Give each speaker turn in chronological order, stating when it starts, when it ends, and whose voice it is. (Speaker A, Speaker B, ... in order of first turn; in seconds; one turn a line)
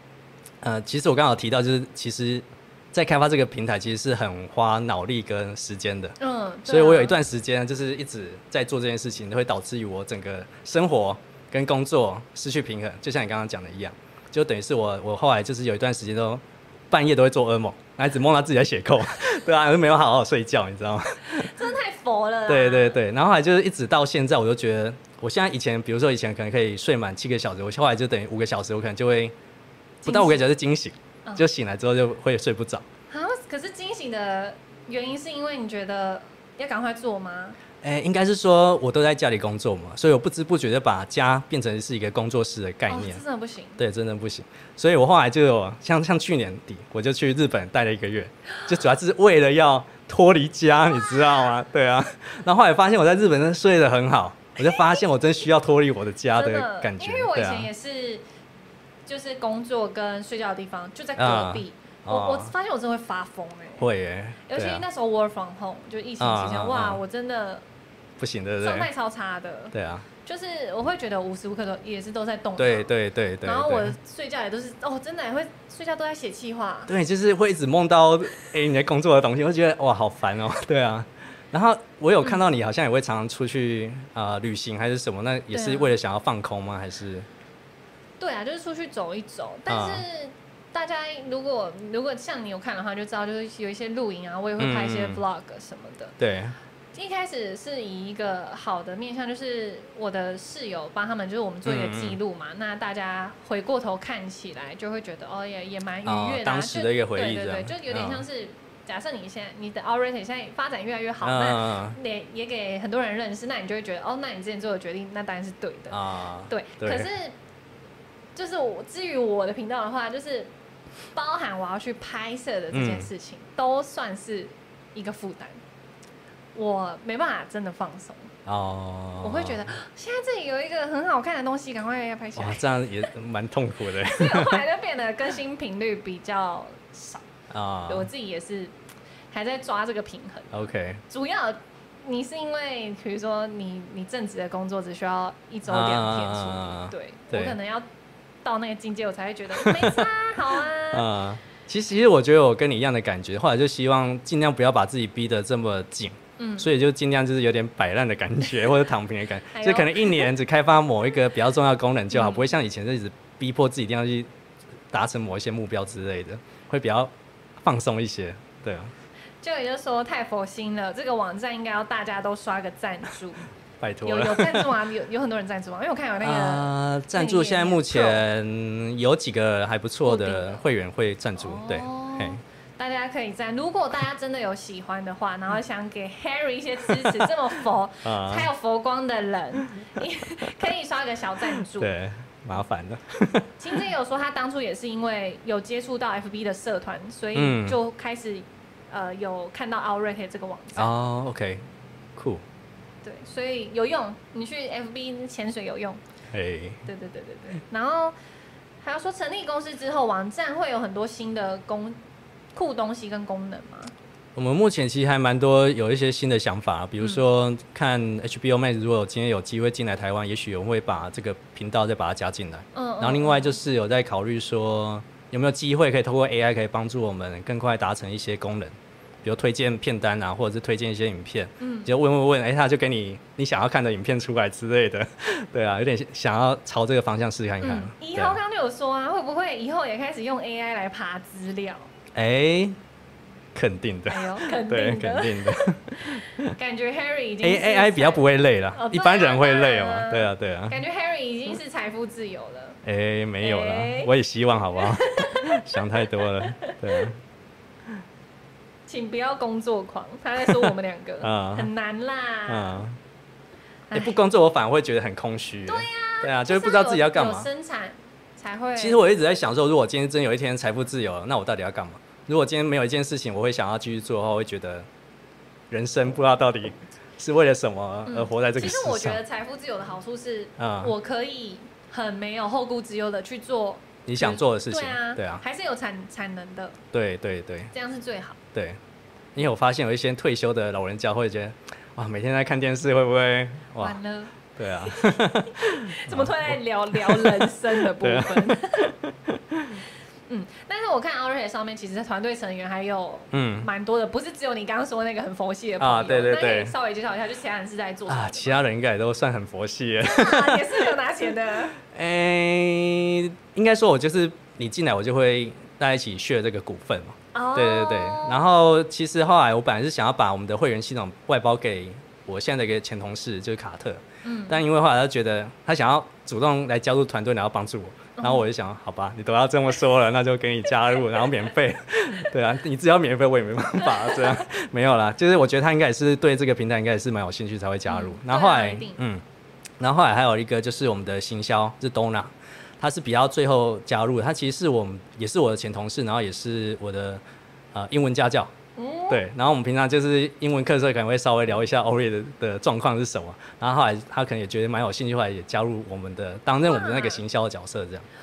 Speaker A: 0.6-21.5
Speaker B: 6.2-7.2
Speaker B: 21.4-23.0
Speaker A: 22.5-29.3
Speaker B: 30.0-30.4
Speaker A: 30.1-32.9
Speaker B: 33.1-37.6
Speaker A: 37.8-43.2
Speaker B: 42.9-43.8
Speaker A: 43.8-57.7
Speaker B: 54.6-55.0
Speaker B: 56.4-58.2
Speaker B: 59.0-63.9
Speaker A: 61.2-62.5
Speaker A: 63.8-64.8
Speaker B: 64.5-67.6
Speaker A: 66.2-67.0
Speaker A: 68.2-68.9
Speaker B: 68.6-69.7
Speaker A: 69.7-70.0
Speaker B: 70.2-76.9
Speaker A: 72.6-73.9
Speaker A: 76.9-87.3
Speaker B: 85.5-85.9
Speaker B: 88.2-96.2
Speaker A: 89.7-90.0
Speaker A: 94.6-95.2
Speaker A: 96.2-96.5
Speaker B: 96.9-116.0
Speaker A: 101.6-102.2
Speaker A: 106.0-108.2
Speaker A: 111.2-112.0
Speaker A: 115.9-117.1
Speaker B: 116.5-117.3
Speaker B: 118.3-120.5
Speaker B: 121.1-125.6
Speaker A: 122.7-123.1
Speaker B: 126.5-128.3
Speaker A: 128.4-129.7
Speaker B: 129.2-133.1
Speaker A: 132.3-134.6
Speaker B: 134.1-137.2
Speaker A: 137.5-138.1
Speaker B: 137.9-138.7
Speaker B: 139.3-147.8
Speaker A: 140.5-141.0
Speaker A: 145.7-147.6
Speaker B: 148.4-151.1
Speaker A: 149.6-150.0
Speaker A: 150.9-164.3
Speaker B: 156.4-156.7
Speaker B: 159.5-160.3
Speaker B: 162.1-162.5
Speaker A: 164.9-167.1
Speaker A: 167.6-168.9
Speaker B: 169.4-173.4
Speaker A: 173.8-174.7
Speaker B: 174.1-178.2
Speaker A: 176.2-182.4
Speaker B: 180.1-180.6
Speaker B: 181.4-191.9
Speaker A: 186.9-187.3
Speaker A: 188.0-188.5
Speaker A: 191.6-193.8
Speaker B: 193.6-200.9
Speaker A: 197.3-197.8
Speaker A: 200.8-201.6
Speaker A: 202.2-202.4
Speaker B: 203.0-206.0
Speaker A: 206.3-206.8
Speaker B: 206.8-208.1
Speaker B: 208.8-212.0
Speaker B: 212.6-213.9
Speaker A: 214.3-238.4
Speaker B: 222.7-223.6
Speaker B: 231.6-231.9
Speaker B: 237.6-241.9
Speaker A: 242.1-242.8
Speaker A: 243.6-246.6
Speaker B: 244.1-252.8
Speaker A: 247.4-250.8
Speaker A: 252.8-257.2
Speaker B: 253.4-254.1
Speaker B: 254.8-257.1
Speaker B: 258.9-262.8
Speaker A: 261.2-261.7
Speaker A: 262.5-263.0
Speaker B: 263.9-264.2
Speaker A: 263.9-267.5
Speaker B: 265.7-269.0
Speaker A: 268.8-274.9
Speaker A: 275.7-279.2
Speaker B: 278.1-286.8
Speaker A: 280.6-280.9
Speaker A: 284.1-285.4
Speaker A: 286.9-287.7
Speaker B: 287.7-288.4
Speaker A: 289.4-294.0
Speaker B: 293.8-298.9
Speaker A: 294.6-299.8
Speaker B: 300.3-308.6
Speaker A: 303.3-303.7
Speaker A: 305.8-306.7
Speaker A: 308.1-310.9
Speaker B: 310.0-311.8
Speaker A: 311.8-339.2
Speaker B: 317.3-318.4
Speaker B: 324.2-324.6
Speaker B: 328.2-328.4
Speaker B: 333.9-334.3
Speaker B: 337.9-339.0
Speaker A: 339.8-347.2
Speaker A: 347.7-348.5
Speaker B: 348.8-349.2
Speaker A: 349.1-358.1
Speaker B: 356.6-357.2